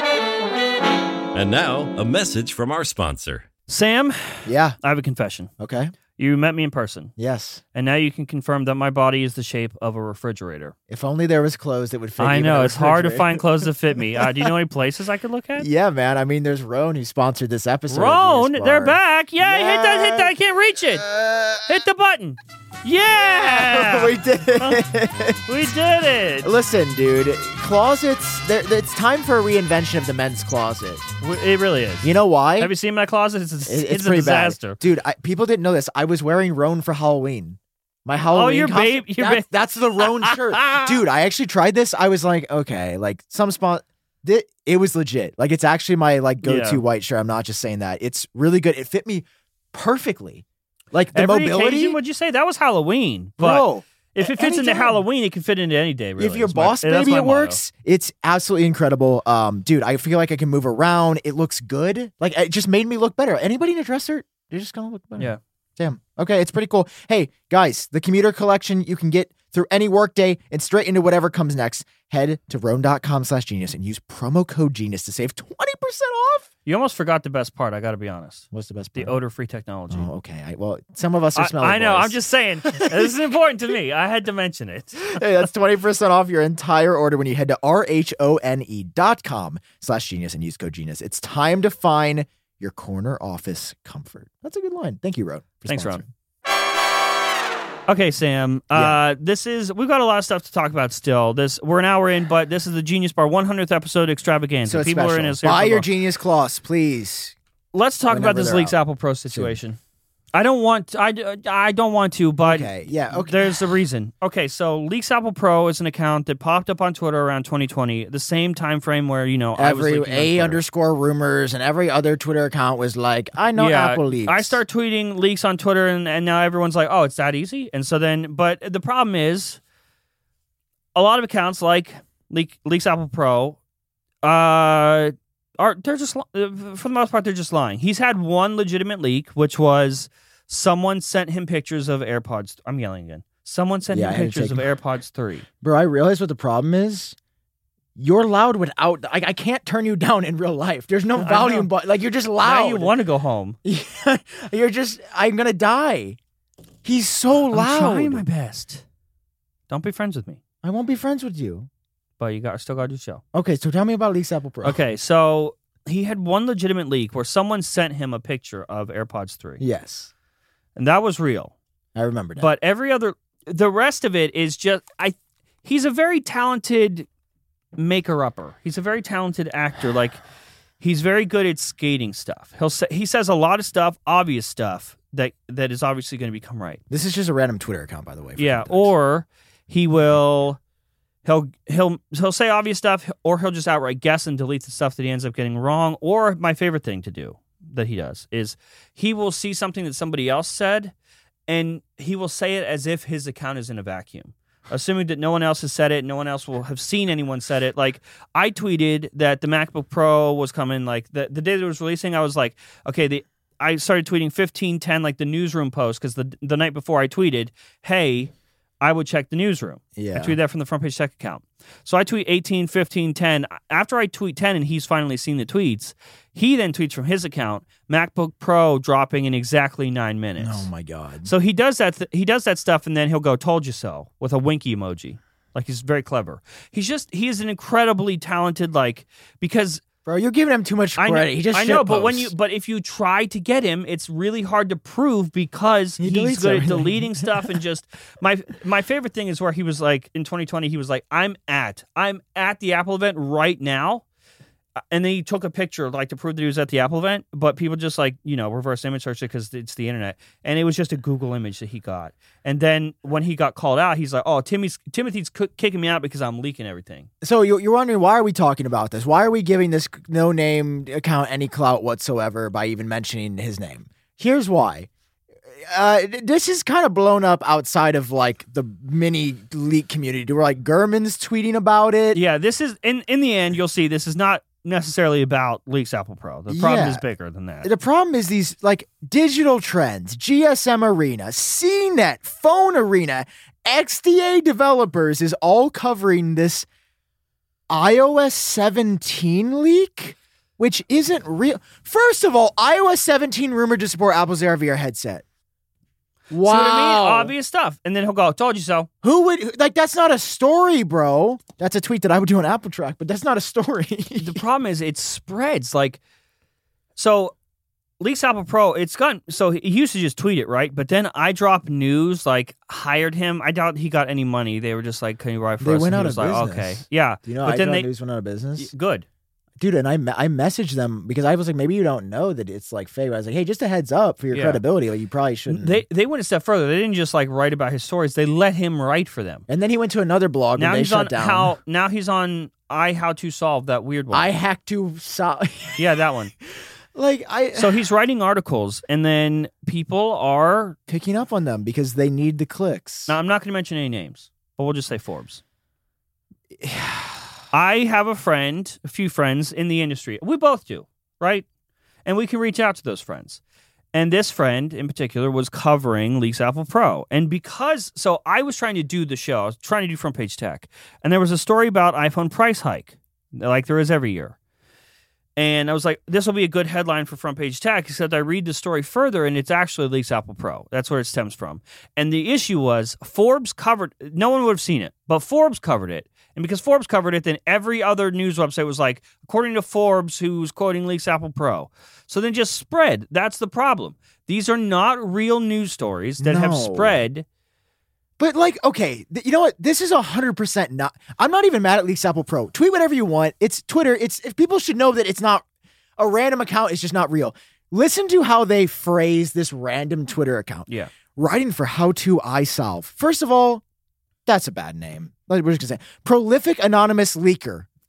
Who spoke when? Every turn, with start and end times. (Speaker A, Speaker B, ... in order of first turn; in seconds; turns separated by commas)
Speaker A: 1.3-3.5, Speaker B: 3.7-5.5, Speaker C: 4.4-4.8, Speaker C: 5.6-5.9, Speaker B: 6.2-7.1, Speaker C: 7.2-7.6, Speaker B: 7.7-10.7, Speaker C: 10.9-14.5, Speaker B: 12.2-15.7, Speaker C: 15.6-21.8, Speaker B: 17.9-21.1, Speaker B: 21.6-24.8, Speaker C: 23.1-25.4, Speaker B: 25.5-26.5, Speaker C: 26.4-31.1, Speaker B: 31.2-34.8, Speaker C: 32.0-32.7, Speaker C: 33.6-52.0, Speaker B: 38.3-39.5, Speaker B: 40.0-41.0, Speaker B: 46.4-46.8, Speaker B: 51.1-57.6, Speaker C: 53.4-55.0, Speaker C: 56.2-76.5, Speaker B: 76.7-80.1, Speaker C: 78.5-79.1, Speaker C: 79.9-83.1, Speaker B: 81.3-85.2, Speaker C: 85.0-96.1, Speaker B: 95.7-96.0, Speaker B: 97.9-105.9, Speaker C: 98.7-99.0, Speaker C: 104.6-107.3, Speaker B: 107.7-109.8, Speaker C: 108.1-108.8, Speaker C: 109.3-109.6, Speaker B: 110.3-120.6, Speaker C: 112.4-113.7, Speaker C: 119.5-124.6, Speaker B: 123.5-129.6, Speaker B: 130.9-133.6, Speaker B: 134.2-145.4, Speaker C: 143.9-144.7, Speaker C: 145.6-147.2, Speaker C: 147.9-152.9, Speaker B: 151.2-151.7, Speaker B: 152.4-153.6, Speaker C: 153.6-156.2, Speaker C: 156.8-158.2, Speaker B: 157.5-158.8, Speaker B: 159.7-160.4, Speaker C: 160.6-161.7, Speaker B: 162.2-163.2, Speaker C: 163.3-164.8, Speaker B: 164.6-169.6, Speaker C: 169.6-170.1, Speaker B: 170.8-171.5, Speaker C: 171.9-172.5, Speaker B: 172.4-177.1, Speaker B: 177.8-180.2, Speaker B: 180.8-186.8, Speaker C: 186.9-188.9, Speaker B: 188.4-190.6, Speaker B: 191.2-200.9, Speaker B: 201.5-230.7, Speaker C: 219.9-220.4, Speaker C: 230.4-231.3, Speaker B: 231.2-239.8, Speaker C: 240.1-242.3, Speaker B: 241.0-254.0, Speaker C: 246.0-247.5, Speaker B: 254.9-267.1, Speaker C: 267.2-274.9, Speaker C: 275.6-282.2, Speaker B: 282.1-287.7, Speaker C: 286.5-287.0, Speaker C: 287.6-296.7, Speaker C: 297.7-305.2, Speaker C: 306.3-307.3, Speaker B: 306.4-308.9, Speaker C: 309.0-314.4, Speaker B: 314.2-316.0, Speaker B: 316.9-317.3, Speaker B: 318.0-327.9, Speaker C: 325.6-328.7, Speaker B: 328.6-329.1, Speaker C: 329.6-335.8, Speaker B: 334.3-334.6, Speaker B: 335.5-339.4, Speaker C: 339.5-341.5, Speaker B: 340.6-344.3, Speaker C: 344.1-345.9, Speaker B: 345.8-346.3, Speaker C: 346.9-347.8, Speaker B: 347.5-350.8, Speaker C: 350.9-353.2, Speaker B: 353.1-355.4, Speaker C: 356.5-357.4, Speaker B: 357.5-361.4, Speaker B: 362.0-363.4, Speaker B: 363.9-374.4, Speaker B: 375.4-397.2, Speaker C: 396.2-397.0, Speaker C: 398.2-405.4, Speaker C: 406.0-413.6, Speaker C: 414.2-417.7